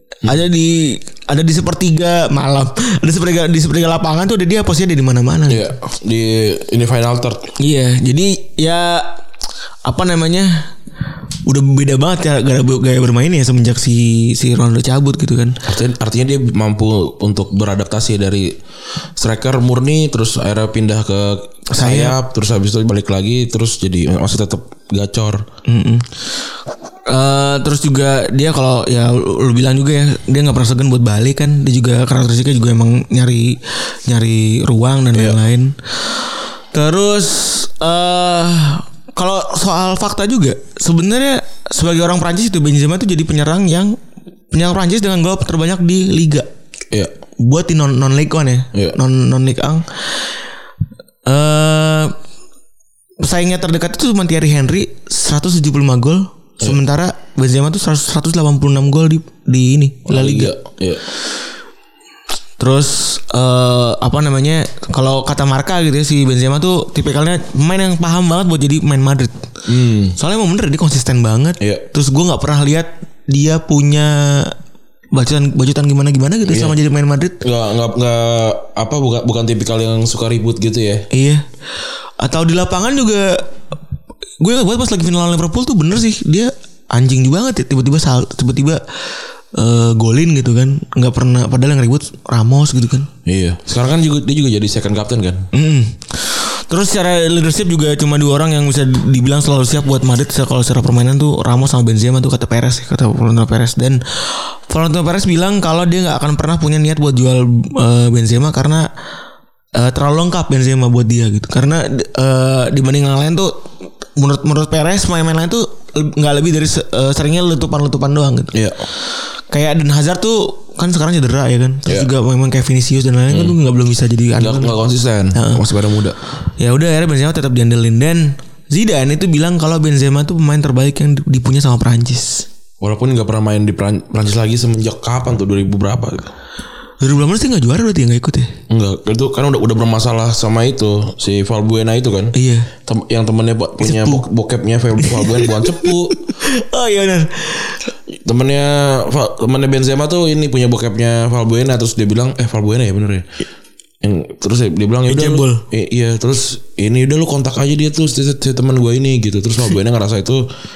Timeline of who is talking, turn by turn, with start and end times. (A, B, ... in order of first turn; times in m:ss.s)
0:00.2-0:05.7 A
0:05.5-0:07.5 B
0:07.6-0:09.2 A
0:09.8-0:10.7 A
0:11.4-0:15.6 A
0:15.6-0:18.6 B
0:19.2-0:25.4 B
0:21.7-0:22.2 A
0:25.6-0:26.2 A
0:27.1-0:43.9 A
0:44.5-0:46.5 A
0:47.4-0:50.3 A
0:51.2-0:52.1 A
0:53.2-1:00.5 A
1:00.0-1:01.0 B
1:02.6-1:09.4 A
1:09.7-1:10.2 B
1:10.2-1:14.5 A
1:15.1-1:17.4 A
1:16.4-1:16.7 B
1:17.4-1:21.0 B
1:21.1-1:21.4 A
1:22.2-1:23.5 A
1:24.4-1:28.8 A
1:29.5-1:33.1 A
1:33.2-1:35.5 B
1:35.5-1:48.9 A
1:49.7-1:53.6 A
1:54.2-1:58.5 A
1:58.5-1:58.9 B
1:59.5-2:04.8 A
2:01.8-2:02.1 B
2:03.3-2:03.6 B
2:04.4-2:06.2 B
2:05.3-2:05.6 A
2:06.6-2:12.5 A
2:12.8-2:16.3 B
2:17.0-2:18.5 A
2:18.7-2:22.3 B
2:22.3-2:22.7 A
2:22.8-2:26.2 B
2:23.8-2:24.2 A
2:25.0-2:27.8 A
2:28.2-2:33.2 B
2:34.0-2:40.4 B
2:35.1-2:35.6 A